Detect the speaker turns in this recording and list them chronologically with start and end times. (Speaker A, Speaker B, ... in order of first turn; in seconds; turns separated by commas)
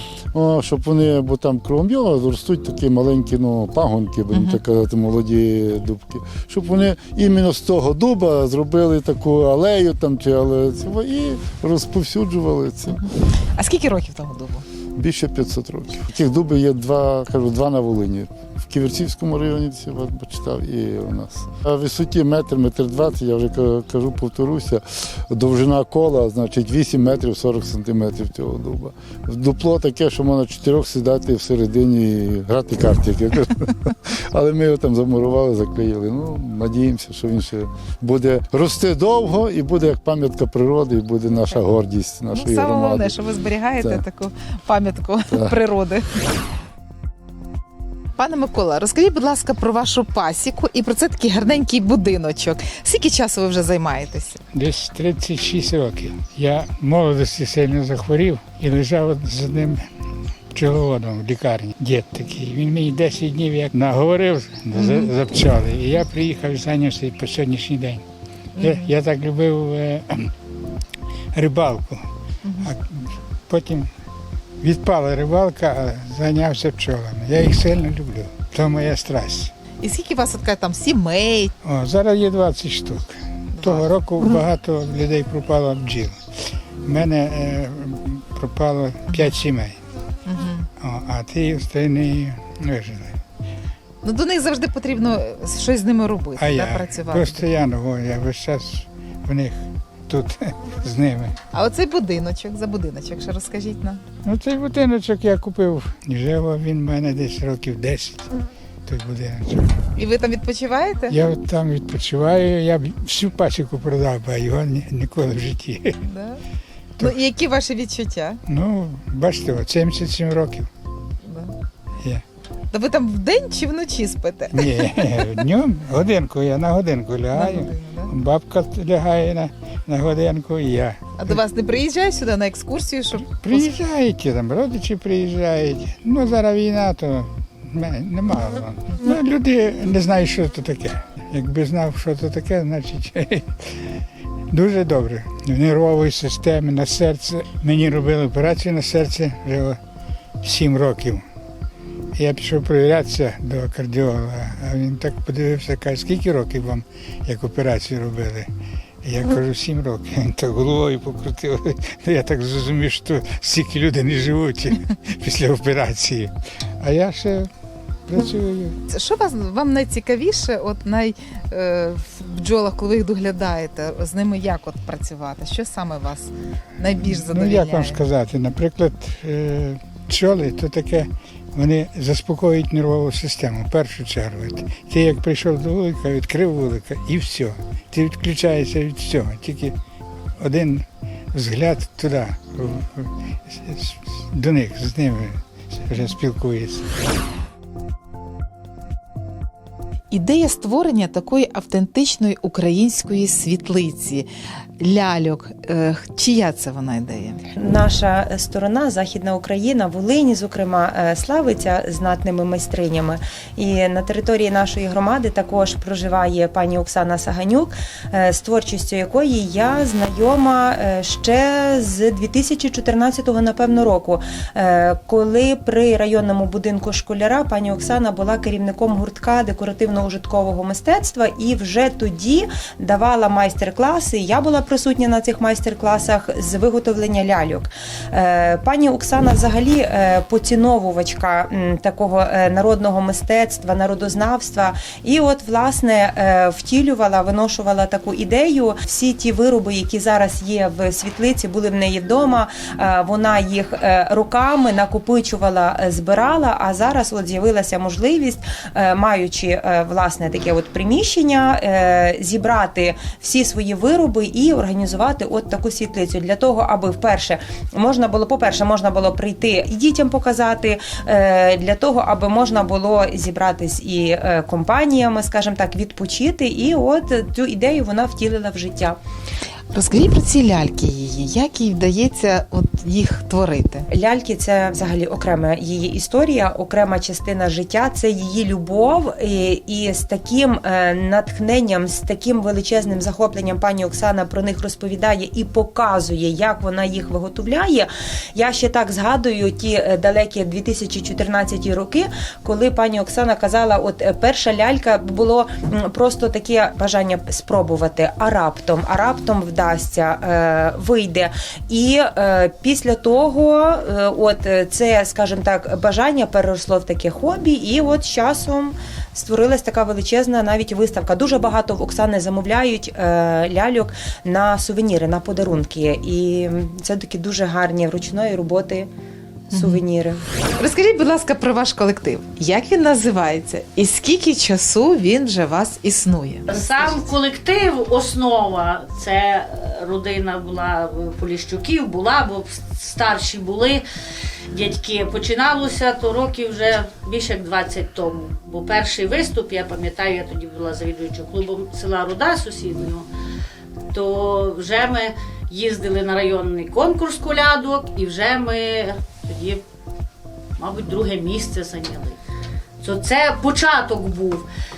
Speaker A: 0.3-13.0, Speaker B: 4.3-4.6, Speaker B: 12.9-14.6, Speaker A: 14.9-43.2, Speaker B: 42.3-46.2, Speaker B: 48.1-54.4, Speaker C: 54.5-59.9, Speaker C: 60.5-68.0, Speaker B: 64.8-65.1, Speaker B: 68.6-68.9, Speaker C: 68.6-70.3, Speaker C: 71.3-72.0, Speaker B: 72.4-72.7, Speaker C: 72.6-73.9, Speaker C: 74.6-79.5, Speaker B: 79.8-81.5, Speaker C: 81.6-86.2, Speaker B: 83.5-83.9, Speaker C: 86.8-89.8, Speaker B: 89.1-89.3, Speaker B: 90.2-90.7, Speaker C: 90.8-93.2, Speaker B: 94.0-97.5, Speaker C: 96.4-101.3, Speaker B: 101.5-104.0, Speaker C: 104.2-108.3, Speaker C: 108.9-109.8, Speaker B: 110.0-111.2, Speaker C: 111.1-116.0, Speaker B: 116.0-116.4, Speaker B: 117.0-118.4, Speaker C: 118.5-120.7, Speaker B: 121.2-121.5, Speaker B: 122.7-125.3, Speaker C: 124.5-131.4, Speaker B: 127.3-128.1, Speaker B: 131.2-133.7, Speaker C: 133.3-143.5, Speaker C: 144.5-149.8, Speaker C: 150.4-151.2, Speaker C: 152.2-158.5, Speaker C: 159.0-167.5, Speaker C: 168.1-168.8, Speaker B: 168.9-178.0, Speaker C: 177.0-189.7, Speaker C: 190.4-196.8, Speaker B: 200.1-204.3, Speaker B: 204.8-207.4, Speaker D: 207.6-279.0, Speaker B: 279.7-283.9, Speaker D: 283.9-328.9, Speaker B: 329.5-329.8, Speaker D: 329.5-330.2, Speaker B: 330.6-336.5, Speaker E: 336.5-343.8, Speaker E: 344.5-353.1, Speaker E: 353.9-359.6, Speaker E: 360.6-362.2, Speaker E: 362.8-364.4